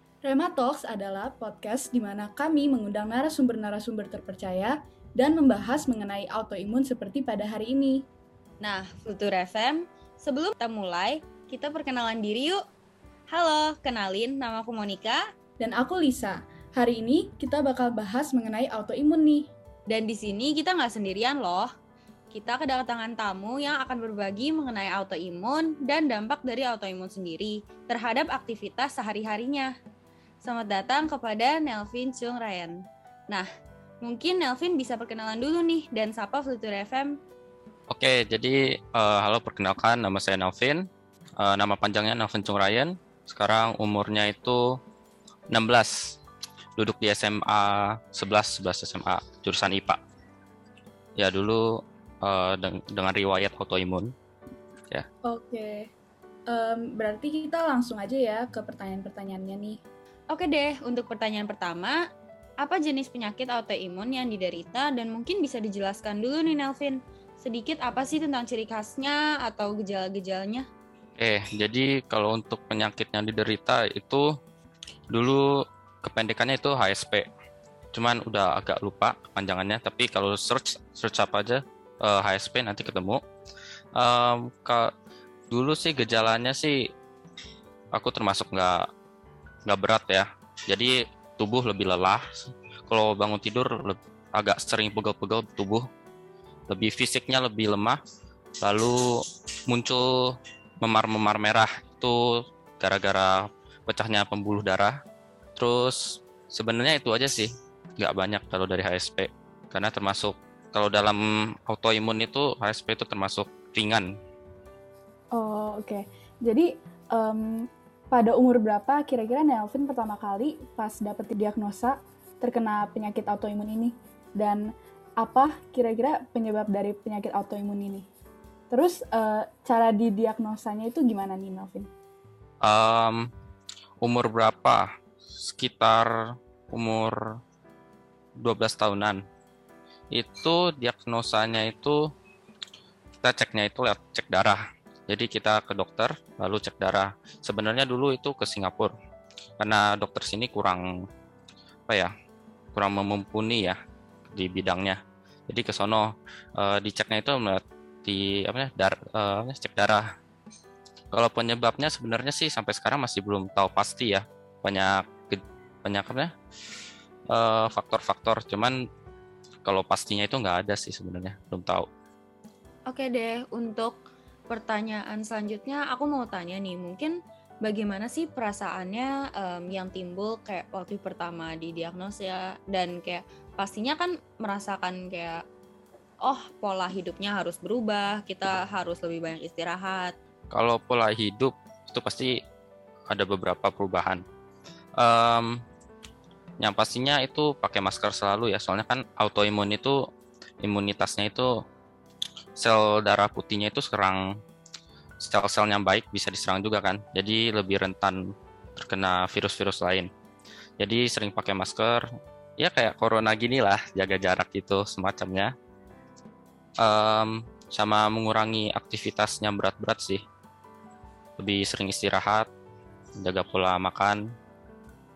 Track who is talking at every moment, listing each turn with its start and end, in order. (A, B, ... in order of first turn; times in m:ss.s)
0:00.2-0:08.0 A
0:08.6-0:12.6 B
0:13.3-0:15.2 B
0:15.6-0:19.5 A
0:19.9-0:21.7 B
0:22.3-0:29.7 B
0:30.4-0:32.8 B
0:34.0-0:37.2 B
0:37.9-0:40.8 C
0:41.4-0:44.6 C
0:45.5-0:46.2 C
0:46.8-0:50.0 C
0:51.2-0:54.1 C
0:55.2-0:55.9 A
0:56.5-0:59.8 A
1:00.3-1:02.0 B
1:02.6-1:10.6 B
1:11.2-1:14.3 C
1:15.1-1:15.5 C
1:16.0-1:17.3 C
1:17.9-1:23.2 C
1:24.0-1:24.9 C
1:25.5-1:26.8 C
1:27.9-1:28.8 C
1:29.7-1:35.9 C
1:36.7-1:38.0 C
1:38.6-1:45.0 C
1:45.6-1:54.1 C
1:55.3-2:04.6 A
2:05.2-2:08.1 A
2:08.7-2:11.9 A
2:12.6-2:13.3 C
2:14.0-2:17.4 C
2:18.4-2:19.2 C
2:20.1-2:22.0 C
2:23.2-2:28.9 C
2:29.6-2:31.0 C
2:32.7-2:33.8 C
2:34.3-2:35.0 C
2:35.5-2:40.1 C
2:41.1-2:46.3 C
2:47.3-2:48.8 C
2:49.6-2:51.9 C
2:52.9-2:54.0 B
2:54.5-3:05.4 B
3:06.2-3:10.1 B
3:10.5-3:12.3 C
3:13.1-3:14.2 C
3:15.0-3:15.6 C
3:16.6-3:20.0 C
3:20.6-3:21.5 C
3:22.6-3:24.3 C
3:25.2-3:28.2 C
3:28.8-3:30.1 C
3:30.8-3:32.0 C
3:32.6-3:35.5 C
3:36.8-3:40.2 C
3:41.4-3:42.5 C
3:43.2-3:44.2 C